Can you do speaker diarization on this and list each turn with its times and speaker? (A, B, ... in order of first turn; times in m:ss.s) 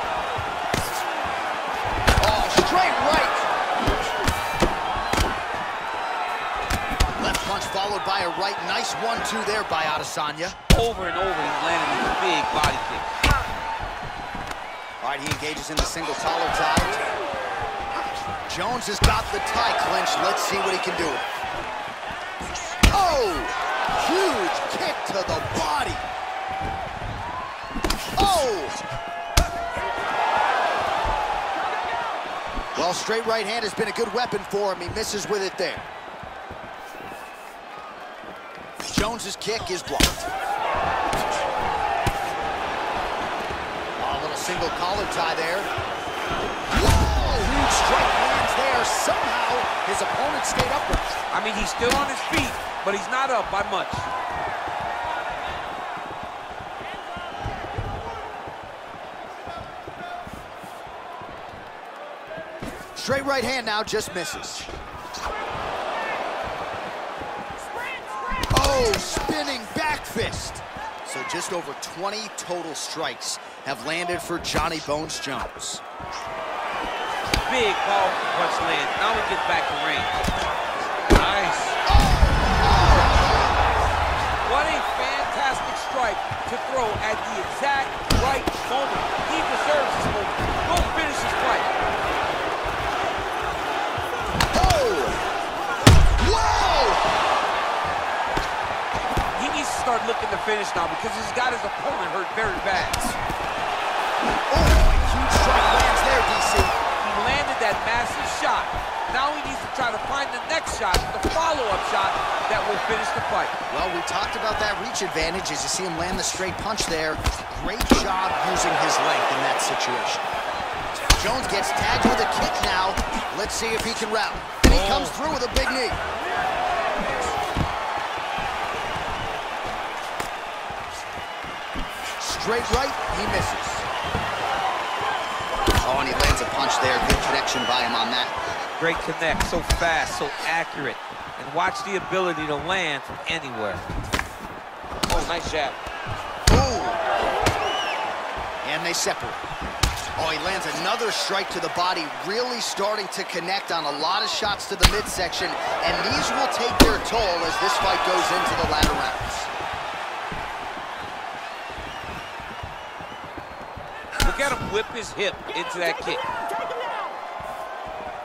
0:02.2-0:03.5 A
0:07.2-0:10.6 A
0:10.7-0:13.2 B
0:15.0-0:17.0 A
0:18.5-0:21.2 A
0:22.9-0:26.0 A
0:28.2-0:28.8 A
0:32.7-0:35.9 A
0:38.9-0:40.3 A
0:44.0-0:45.7 A
0:46.7-0:51.1 A
0:51.3-0:54.1 B
1:03.0-1:04.7 A
1:08.5-1:15.8 A
1:17.4-1:20.2 B
1:21.1-1:21.8 B
1:21.8-1:23.5 A
1:24.4-1:31.7 B
1:34.5-1:35.2 A
1:36.1-1:37.0 A
1:39.3-1:43.2 B
1:44.5-1:46.8 A
1:47.0-1:53.6 B
1:53.7-2:00.2 A
2:01.2-2:06.0 A
2:04.6-2:05.2 B
2:12.2-2:13.8 A
2:15.8-2:18.3 A
2:18.8-2:23.8 B
2:25.1-2:25.8 B
2:26.5-2:27.0 A
2:28.6-2:29.4 A
2:30.2-2:39.5 A
2:44.2-2:46.2 B